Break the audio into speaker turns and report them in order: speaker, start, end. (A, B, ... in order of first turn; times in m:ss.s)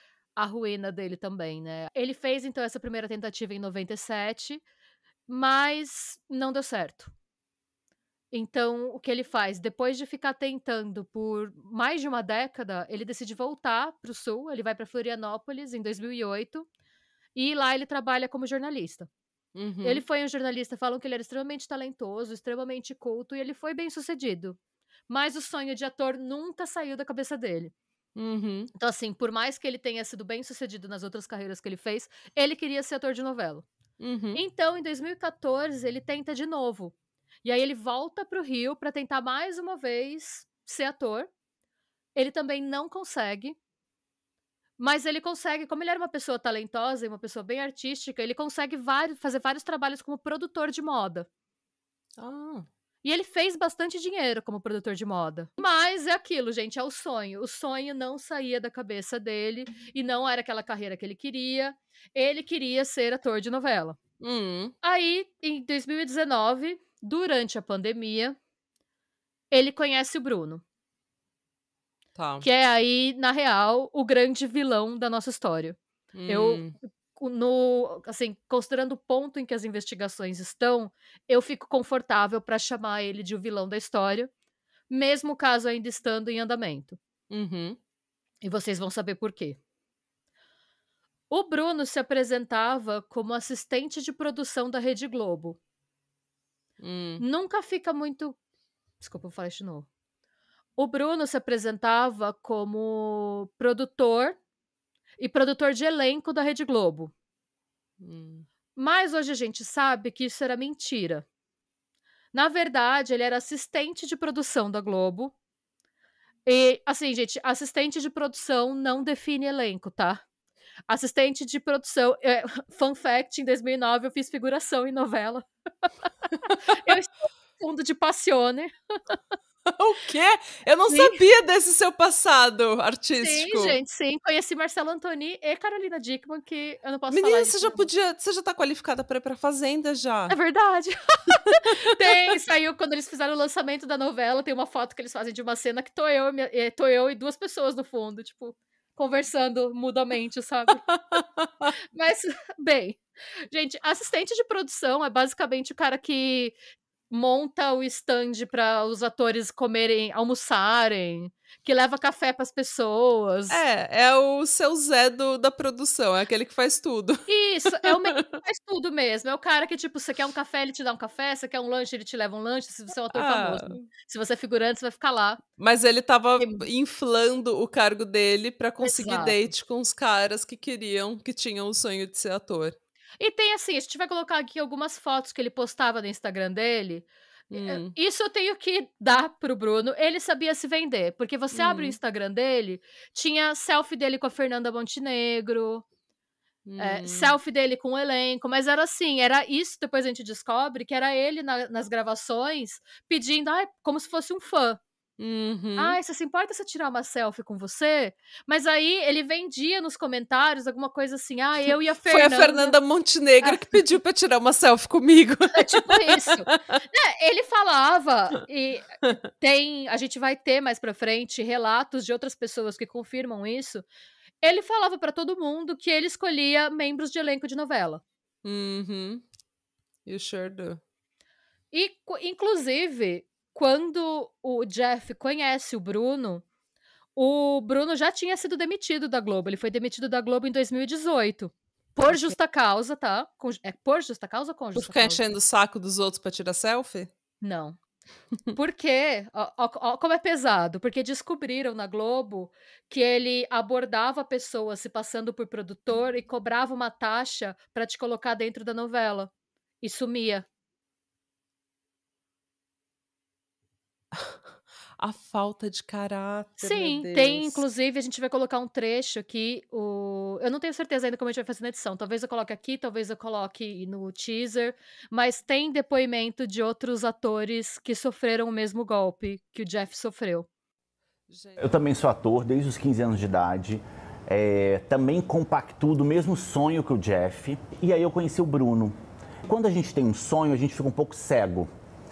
0:00.4-0:04.6 A
0:05.3-0:07.1 A
0:08.3-0:16.7 A
0:17.4-0:19.1 A
0:19.6-0:20.0 B
0:19.8-0:27.7 A
0:28.2-0:28.7 B
0:28.8-0:33.7 A
0:34.0-0:34.4 B
0:34.4-0:41.3 A
0:42.2-0:43.6 A
0:44.8-0:51.3 A
0:52.2-0:52.7 B
0:53.0-1:04.0 A
1:04.2-1:04.8 B
1:04.8-1:08.4 A
1:09.5-1:10.6 A
1:12.2-1:12.5 B
1:12.4-1:24.3 A
1:16.1-1:16.8 B
1:24.9-1:27.0 A
1:27.3-1:27.8 B
1:28.4-1:29.6 A
1:31.3-1:35.6 A
1:36.8-1:37.2 B
1:37.2-1:38.4 A
1:39.0-1:39.9 A
1:40.8-1:44.4 A
1:45.2-1:47.1 A
1:48.0-1:48.5 B
1:48.8-1:51.2 A
1:52.3-1:55.3 A
1:56.5-2:00.2 A
2:00.9-2:05.5 A
2:06.6-2:09.2 A
2:09.7-2:13.8 B
2:10.9-2:11.2 A
2:13.2-2:17.9 A
2:17.1-2:20.4 B
2:20.3-2:30.8 A
2:30.9-2:31.7 B
2:31.9-2:36.6 A
2:37.1-2:43.6 A
2:43.5-2:48.4 B
2:47.3-2:55.4 A
2:53.1-2:53.8 B
2:55.6-3:02.8 B
2:58.8-2:59.4 A
3:03.2-3:15.8 A
3:07.5-3:07.9 B
3:11.5-3:12.0 B
3:16.7-3:17.4 B
3:16.8-3:24.8 A
3:25.2-3:26.0 B
3:25.8-3:32.8 A
3:32.1-3:36.8 B
3:33.4-3:33.7 A
3:35.5-3:43.8 A
3:44.4-3:48.0 A
3:48.4-3:49.2 B
3:50.1-3:50.8 B
3:51.7-3:56.4 A
3:57.2-4:05.2 A
4:02.1-4:02.3 B
4:04.8-4:07.1 B
4:07.4-4:07.8 A
4:08.5-4:19.3 A
4:19.8-4:20.4 A
4:24.1-4:24.4 B
4:25.0-4:27.6 B
4:26.6-4:40.5 A
4:41.3-4:41.7 B
4:41.6-4:48.9 C
4:49.5-4:51.7 C